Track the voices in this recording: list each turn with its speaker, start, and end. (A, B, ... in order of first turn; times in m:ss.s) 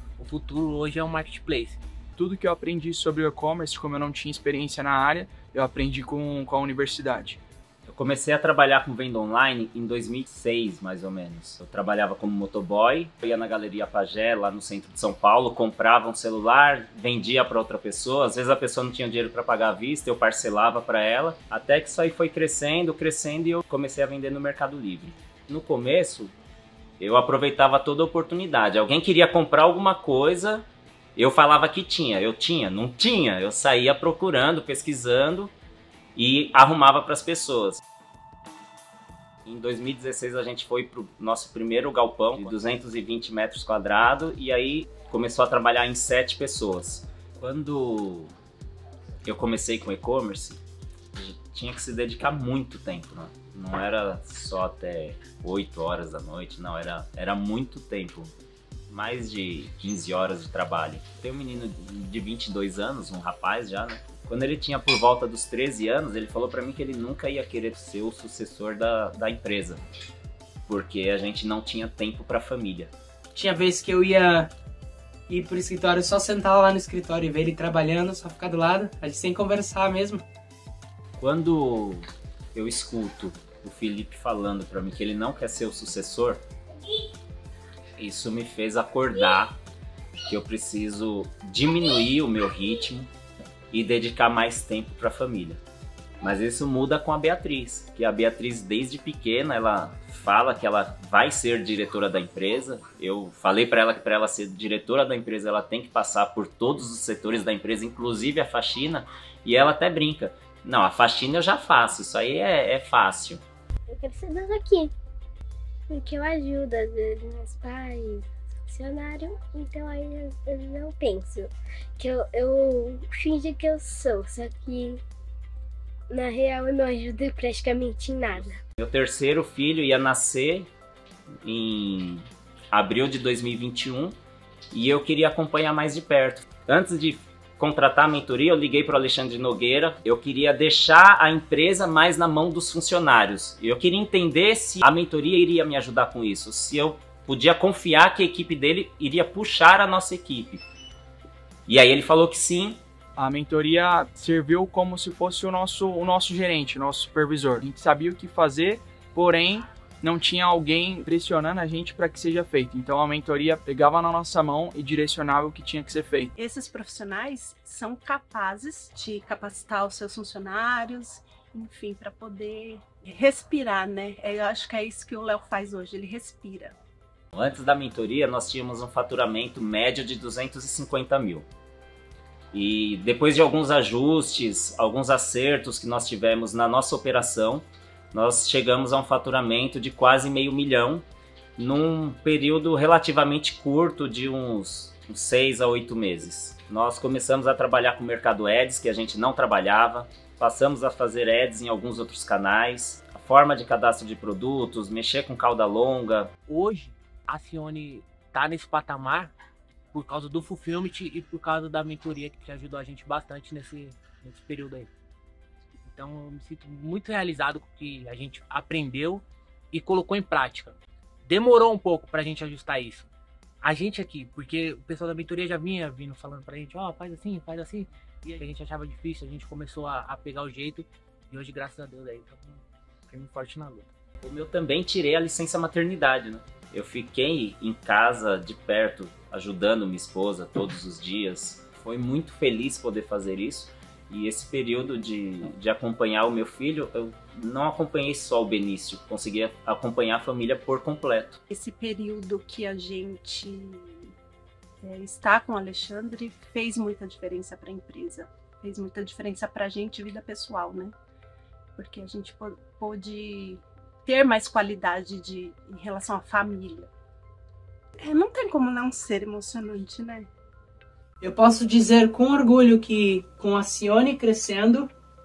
0:00.2-0:01.8 A
0:02.2-0:07.4 B
0:07.9-0:26.3 C
0:27.0-0:30.6 C
0:31.2-0:35.5 C
0:36.2-0:37.8 C
0:39.5-0:48.3 C
0:49.3-0:50.6 C
0:51.2-0:58.3 C
0:58.9-1:09.8 C
1:10.7-1:12.9 C
1:13.3-1:14.5 D
1:15.3-1:20.2 D
1:21.2-1:26.4 C
1:28.0-1:29.6 C
1:30.3-1:33.1 C
1:33.7-1:35.6 C
1:36.2-1:53.4 C
1:53.9-1:54.9 E
1:55.9-2:05.0 E
2:06.1-2:08.6 E
2:08.4-2:10.7 C
2:11.4-2:14.2 C
2:14.7-2:30.6 C
2:31.7-2:32.8 C
2:33.2-2:46.3 B
2:46.4-2:56.8 F
2:57.3-3:01.5 C
3:02.5-3:11.0 C
3:11.6-3:26.3 C
3:26.5-3:29.3 A
3:29.9-3:34.9 A
3:35.8-3:43.1 A
3:43.6-3:53.9 A
3:54.2-4:11.4 C
4:11.5-4:14.1 F
4:14.8-4:21.0 F
4:21.8-4:26.9 F
4:28.0-4:30.3 F
4:31.2-4:34.9 D